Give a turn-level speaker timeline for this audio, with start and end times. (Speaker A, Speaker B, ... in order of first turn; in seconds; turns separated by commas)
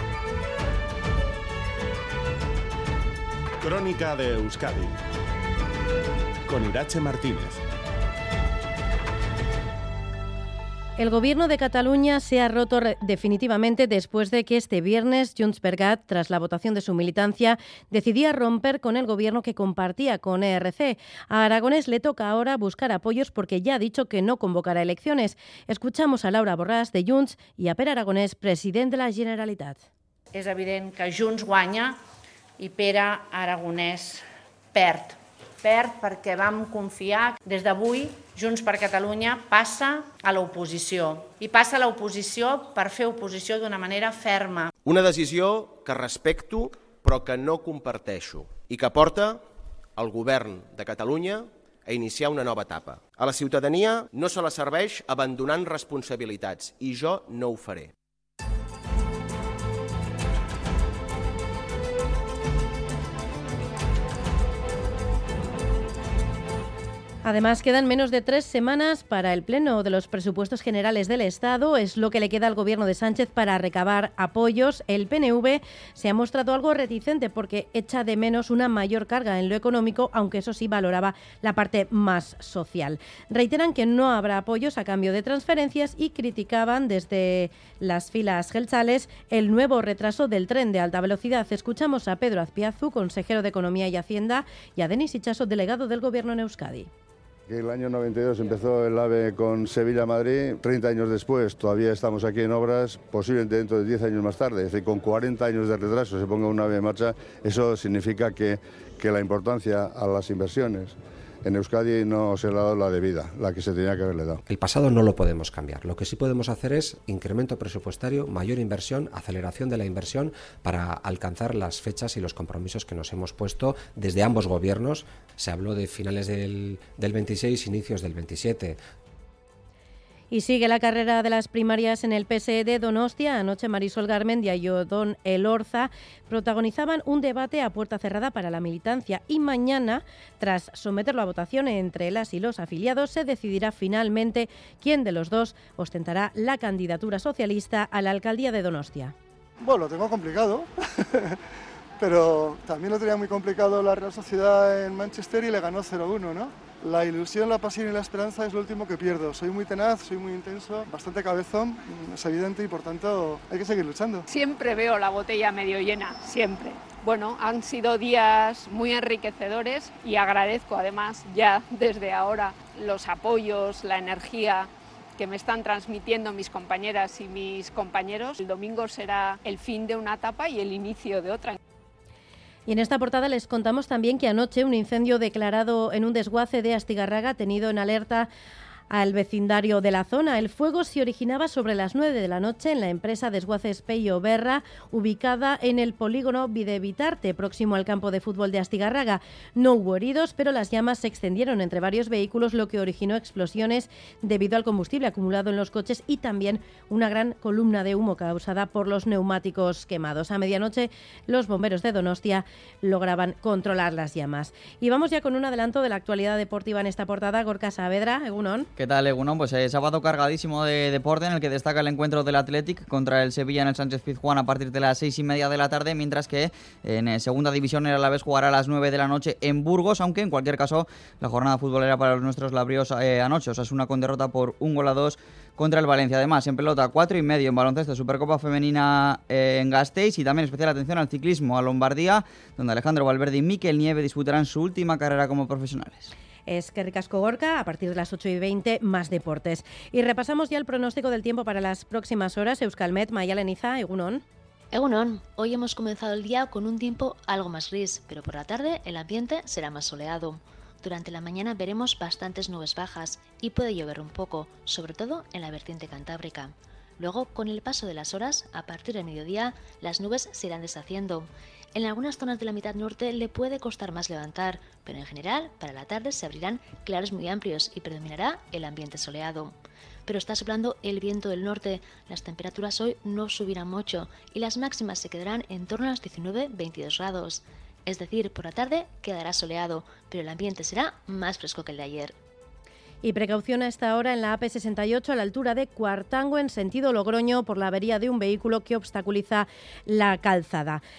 Speaker A: 3.6-5.0, Speaker A: 6.5-7.6, Speaker B: 11.0-29.8, Speaker C: 30.3-31.9, Speaker C: 32.6-34.2, Speaker C: 34.7-44.7, Speaker D: 44.8-49.4, Speaker D: 50.0-57.9, Speaker B: 67.2-96.9, Speaker E: 97.5-114.4, Speaker F: 114.5-128.8, Speaker B: 130.3-149.1, Speaker G: 149.6-151.4, Speaker G: 152.0-164.2, Speaker H: 164.3-181.6, Speaker B: 182.7-188.3, Speaker B: 188.9-218.7, Speaker I: 218.8-246.1, Speaker B: 246.5-254.2, Speaker J: 254.7-279.6, Speaker J: 280.1-292.1, Speaker B: 293.0-300.8